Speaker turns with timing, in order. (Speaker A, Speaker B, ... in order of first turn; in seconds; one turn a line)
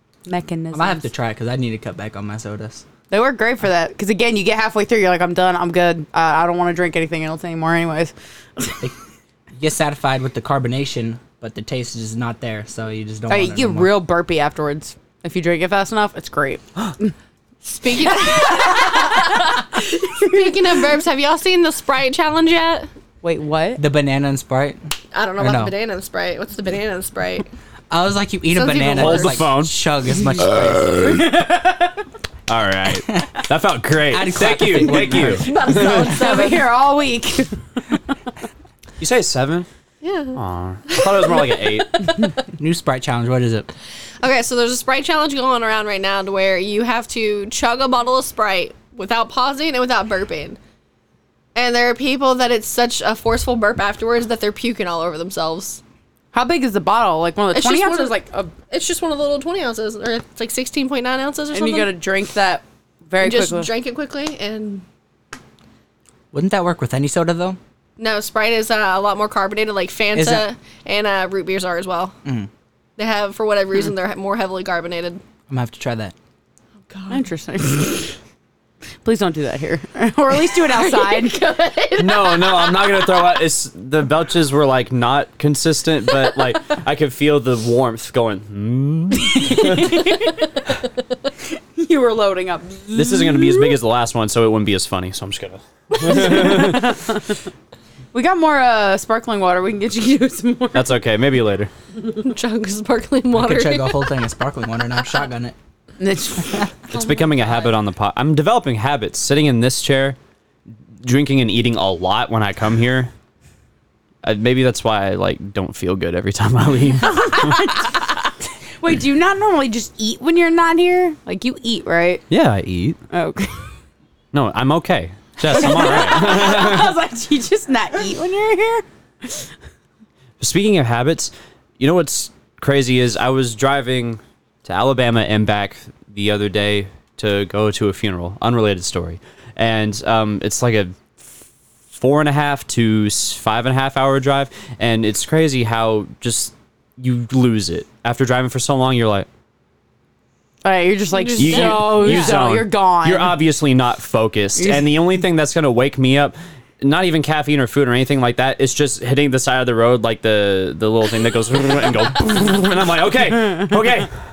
Speaker A: 0.2-1.1
Speaker B: 0.7-2.8
Speaker A: 3.1-8.7
Speaker B: 9.5-14.0
Speaker A: 13.3-17.1
Speaker C: 17.6-22.9
Speaker A: 18.0-19.3
Speaker A: 20.1-20.6
Speaker A: 23.2-23.8
Speaker B: 23.8-24.8
Speaker C: 25.1-27.5
Speaker B: 25.4-25.7
Speaker B: 27.9-31.3
Speaker C: 28.5-29.4
Speaker D: 28.9-29.8
Speaker A: 31.1-31.9
Speaker D: 32.5-36.2
Speaker B: 34.1-35.5
Speaker C: 35.4-36.6
Speaker A: 35.5-38.0
Speaker D: 39.0-39.7
Speaker C: 40.0-40.4
Speaker D: 40.3-42.3
Speaker B: 42.5-43.7
Speaker C: 44.2-50.6
Speaker C: 51.5-55.8
Speaker A: 56.3-58.5
Speaker C: 57.5-61.9
Speaker A: 61.5-63.7
Speaker C: 63.2-64.8
Speaker B: 66.3-67.6
Speaker C: 68.0-72.1
Speaker B: 70.1-70.5
Speaker C: 73.0-75.2
Speaker B: 75.5-76.1
Speaker C: 76.9-77.2
Speaker A: 77.1-78.1
Speaker A: 79.0-81.4
Speaker C: 80.6-82.9
Speaker D: 82.0-90.0
Speaker A: 89.3-90.4
Speaker A: 91.8-93.8
Speaker D: 92.9-97.0
Speaker A: 95.9-97.3
Speaker A: 98.1-100.9
Speaker D: 100.7-101.7
Speaker C: 102.1-104.1
Speaker B: 103.3-105.5
Speaker A: 106.0-107.1
Speaker D: 106.9-110.2
Speaker D: 111.0-113.1
Speaker D: 114.2-117.7
Speaker A: 117.0-122.2
Speaker D: 122.3-123.0
Speaker A: 123.1-123.7
Speaker D: 124.3-127.0
Speaker A: 125.4-128.8
Speaker D: 130.4-149.3
Speaker A: 150.6-153.4
Speaker C: 151.1-152.4
Speaker D: 151.4-164.1
Speaker A: 154.6-155.0